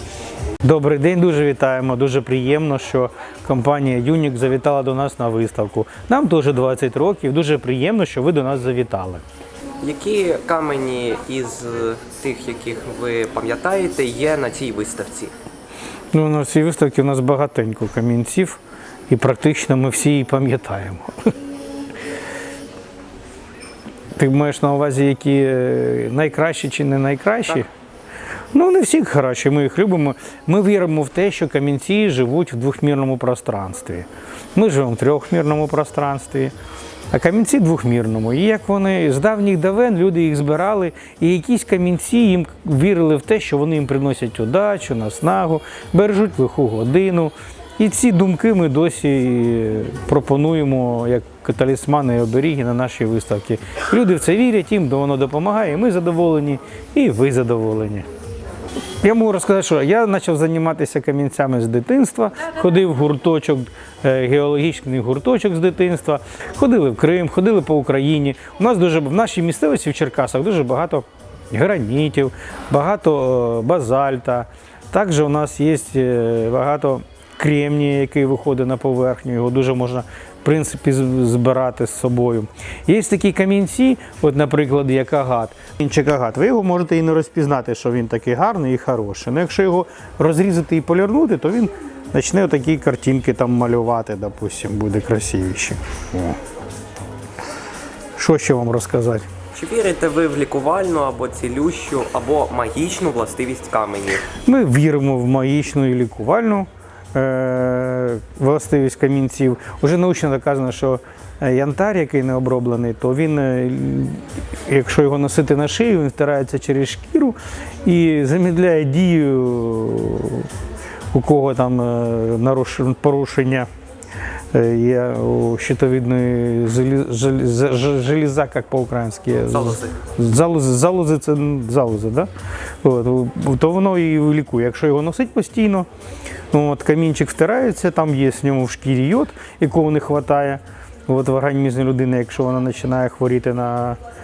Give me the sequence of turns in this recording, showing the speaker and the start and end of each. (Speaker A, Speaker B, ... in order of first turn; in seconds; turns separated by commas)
Speaker A: 0.6-9.2, Speaker B: 9.8-15.3, Speaker A: 16.1-21.3, Speaker A: 24.2-27.7, Speaker A: 28.5-36.5, Speaker A: 37.1-58.1, Speaker A: 59.0-96.4, Speaker A: 98.2-99.2, Speaker B: 99.5-104.3, Speaker A: 104.3-120.5, Speaker A: 121.1-123.7, Speaker A: 124.5-132.3, Speaker B: 129.6-129.9, Speaker A: 132.8-135.9, Speaker A: 136.5-144.0